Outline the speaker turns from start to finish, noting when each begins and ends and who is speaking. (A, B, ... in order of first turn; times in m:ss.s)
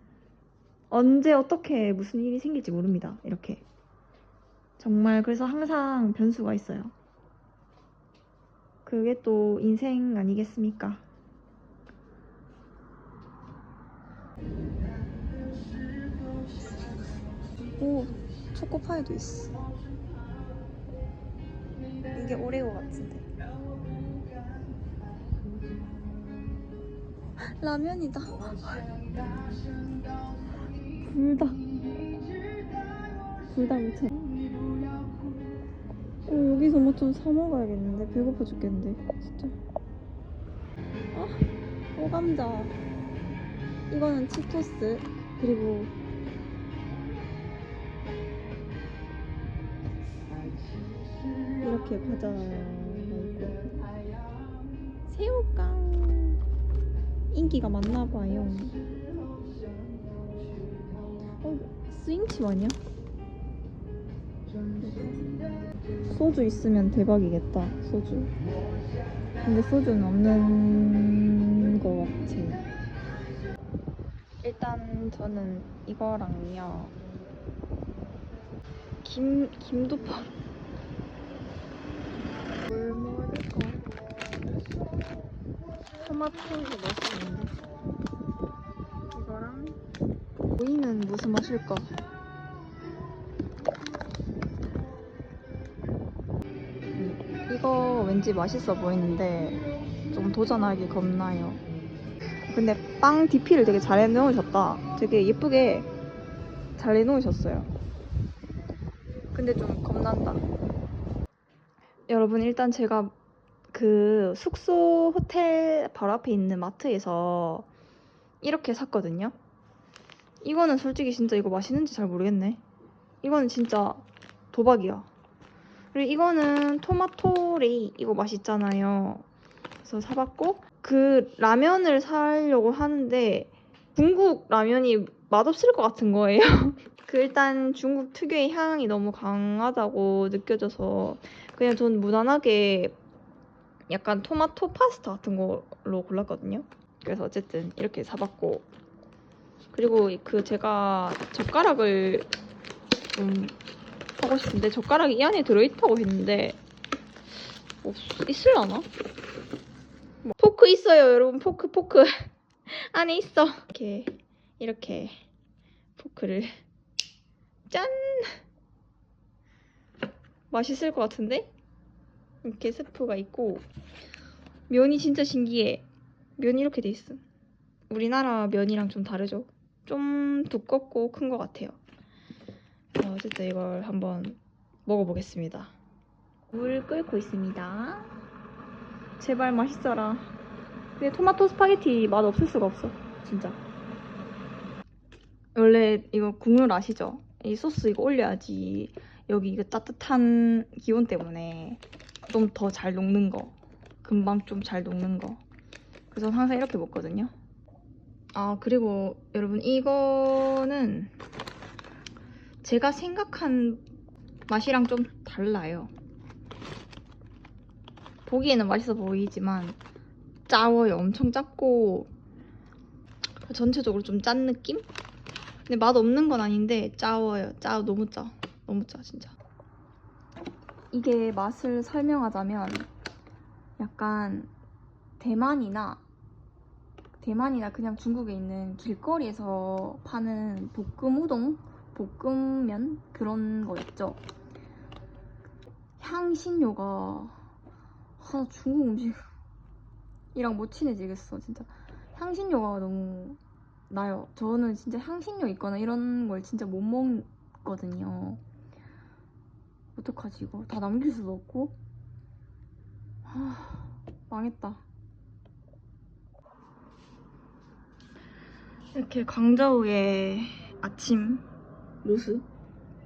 0:00.9-0:03.6 A
0:04.8-0:06.9 A
0:08.8-0:11.0 A
0:17.7-0:19.6 A
0:22.1-0:23.3 A
0:27.4-0:28.9 A
0:31.0-0:31.6 A
0:33.5-0:34.4 A
0:36.3-0:39.6 A
0:41.1-0:42.8 A
0:43.9-0:45.9 A
0:51.6-0:53.7 A
0:55.1-0:56.4 A
0:57.3-0:58.8 A
1:01.4-1:02.8 A
1:04.8-1:05.2 A
1:06.1-1:08.3 A
1:09.4-1:12.7 A
1:14.4-1:17.0 A
1:19.0-1:20.3 A
1:22.7-1:23.9 A
1:26.0-1:27.6 A
1:29.1-1:29.8 A
1:30.6-1:31.9 A
1:37.0-1:41.6 A
1:42.5-1:45.9 A
1:46.8-1:47.7 A
1:49.3-1:50.4 A
1:52.1-1:53.1 A
1:53.7-1:57.7 A
1:58.4-1:59.4 A
2:00.4-2:02.6 A
2:03.2-2:05.1 A
2:05.9-2:09.2 A
2:09.8-2:23.0 A
2:23.9-2:28.7 A
2:29.7-2:32.3 A
2:33.2-2:33.6 A
2:34.2-2:36.6 A
2:37.8-2:38.9 A
2:40.2-2:45.2 A
2:46.0-2:46.6 A
2:47.7-2:48.4 A
2:50.5-2:51.5 A
2:52.4-2:53.7 A
2:54.7-2:55.9 A
2:56.4-2:57.2 A
2:57.9-3:01.8 A
3:03.0-3:05.8 A
3:06.5-3:08.1 A
3:09.2-3:10.3 A
3:11.0-3:13.6 A
3:15.6-3:25.4 A
3:26.1-3:27.3 A
3:28.3-3:31.2 A
3:32.6-3:33.8 A
3:34.5-3:35.9 A
3:38.2-3:39.8 A
3:40.5-3:42.1 A
3:43.4-3:44.9 A
3:45.7-3:49.3 A
3:50.9-3:52.9 A
3:53.8-3:54.5 A
3:55.2-3:56.0 A
3:57.2-4:04.2 A
4:06.0-4:07.4 A
4:08.2-4:09.3 A
4:10.4-4:18.4 A
4:20.0-4:21.8 A
4:23.2-4:24.8 A
4:28.9-4:31.5 A
4:32.0-4:32.5 A